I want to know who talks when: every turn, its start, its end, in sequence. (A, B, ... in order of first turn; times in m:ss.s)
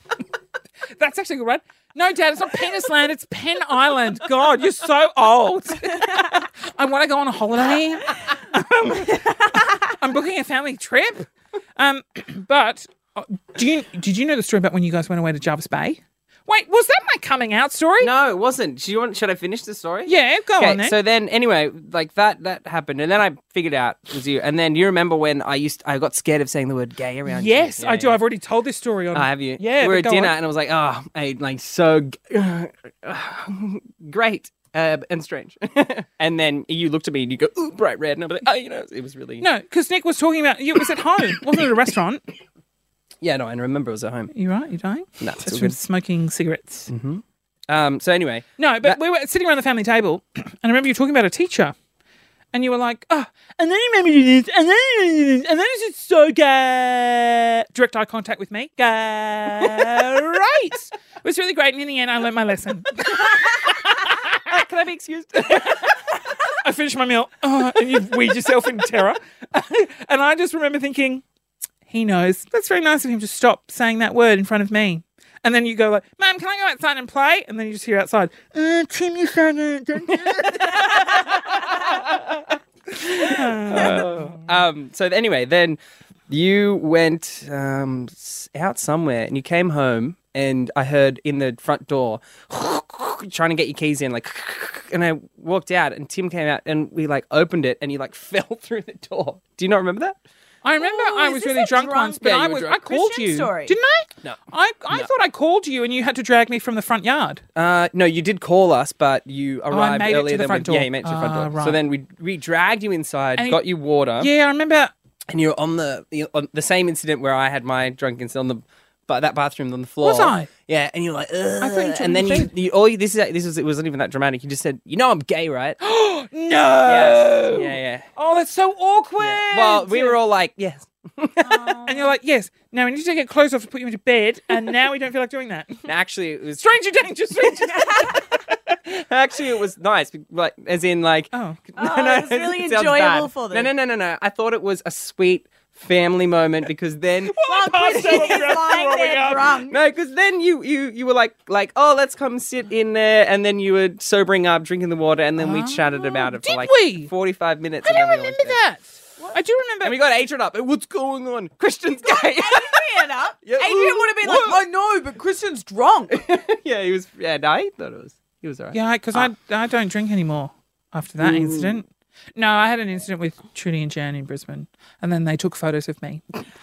0:01.0-0:18.1 A
0:18.0-0:28.2 B
0:20.1-0:21.0 A
0:27.3-0:30.4 A
0:29.1-0:39.5 B
0:39.4-0:42.2 A
0:43.2-0:44.3 B
0:44.3-0:46.9 A
0:45.2-0:45.8 B
0:46.9-0:49.0 B
0:48.6-0:51.8 A
0:52.5-1:04.4 A
1:03.7-1:06.1 B
1:06.5-1:11.2 A
1:11.9-1:22.0 A
1:20.3-1:40.2 B
1:23.0-1:24.5 A
1:40.6-1:47.4 A
1:40.8-1:43.8 C
1:42.2-1:42.7 B
1:47.6-1:54.3 B
1:49.7-1:51.8 A
1:53.4-1:53.6 A
1:54.2-1:54.9 A
1:55.3-2:05.8 B
2:00.0-2:00.5 A
2:01.6-2:02.5 A
2:05.8-2:10.2 A
2:06.8-2:08.1 B
2:09.2-2:11.8 B
2:11.4-2:12.1 C
2:11.8-2:15.9 A
2:15.9-2:16.6 B
2:16.6-2:18.4 A
2:17.9-2:18.2 C
2:18.5-2:27.4 B
2:21.3-2:21.6 A
2:21.8-2:23.7 C
2:27.3-2:29.6 A
2:27.4-2:29.8 C
2:27.9-2:28.4 B
2:29.7-2:38.6 B
2:35.4-2:37.1 A
2:37.8-2:40.0 A
2:39.8-2:44.6 B
2:42.0-2:46.2 C
2:46.1-2:49.3 B
2:48.7-2:56.2 A
2:51.2-2:51.8 B